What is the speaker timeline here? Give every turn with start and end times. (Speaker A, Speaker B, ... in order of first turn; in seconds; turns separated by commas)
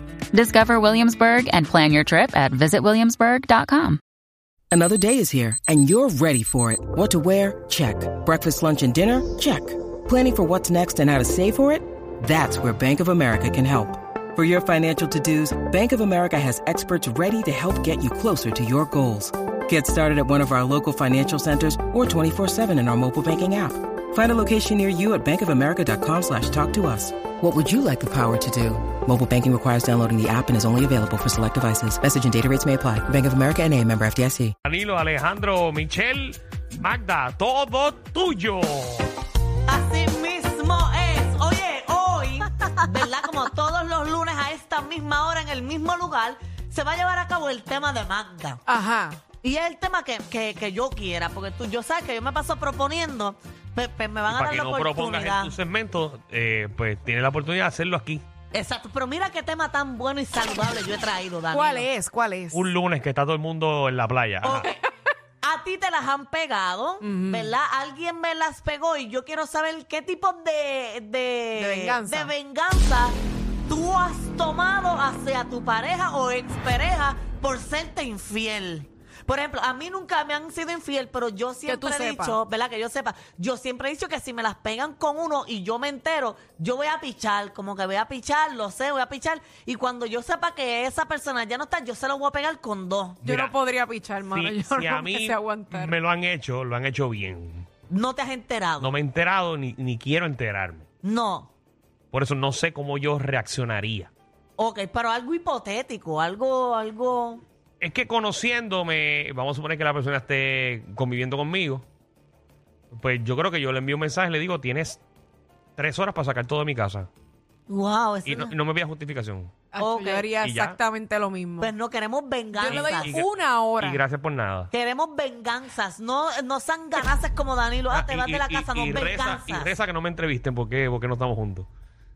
Speaker A: 0.3-4.0, Speaker B: 4.7-34.5, Speaker C: 34.6-39.1, Speaker D: 39.7-48.6, Speaker E: 48.7-49.2, Speaker D: 49.4-55.5, Speaker C: 54.3-58.2, Speaker D: 58.5-61.9, Speaker E: 61.5-62.7, Speaker C: 62.5-64.7, Speaker D: 64.4-64.8, Speaker D: 65.4-73.2, Speaker E: 67.0-67.5, Speaker E: 71.6-72.3, Speaker D: 73.7-93.2, Speaker E: 81.7-82.4, Speaker C: 93.2-93.6, Speaker E: 93.2-96.0, Speaker C: 94.2-97.7, Speaker D: 97.9-98.9, Speaker C: 98.8-100.9, Speaker D: 101.0-101.5, Speaker C: 102.1-104.1, Speaker D: 104.6-107.4, Speaker C: 107.8-111.8, Speaker C: 112.9-115.0, Speaker C: 115.8-117.1, Speaker D: 117.7-118.5, Speaker C: 118.3-119.5, Speaker E: 119.7-121.7, Speaker D: 119.8-120.3, Speaker C: 120.4-120.8, Speaker D: 121.6-123.2, Speaker E: 122.5-124.0, Speaker C: 122.6-124.7, Speaker D: 124.7-129.7, Speaker C: 127.9-131.7